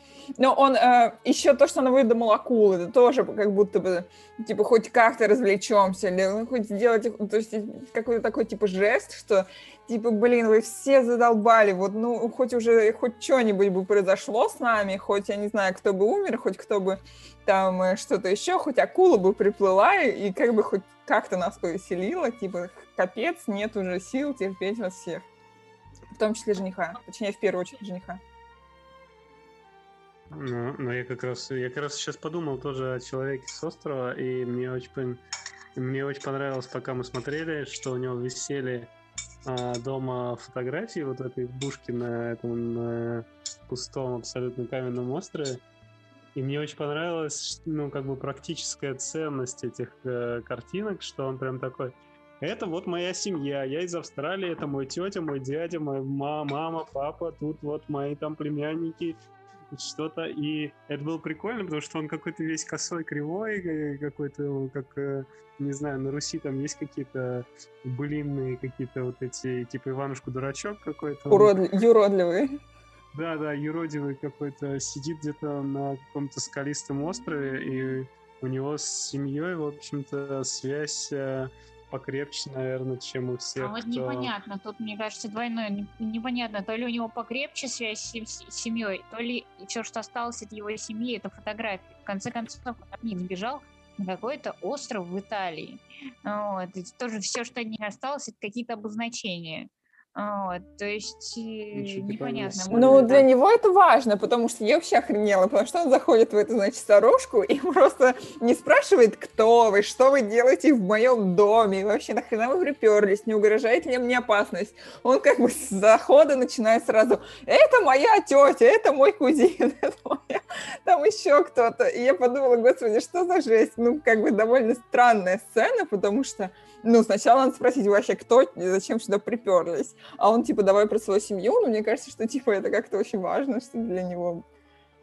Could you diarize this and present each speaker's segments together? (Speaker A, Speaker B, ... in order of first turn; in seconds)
Speaker A: 0.4-25.2, 26.1-28.2, 71.3-72.6, 102.7-134.4
Speaker B: 30.3-35.2, 35.8-38.9, 39.4-45.6, 46.3-59.2, 59.7-71.5, 73.1-84.3, 101.7-103.3
Speaker C: 83.6-103.2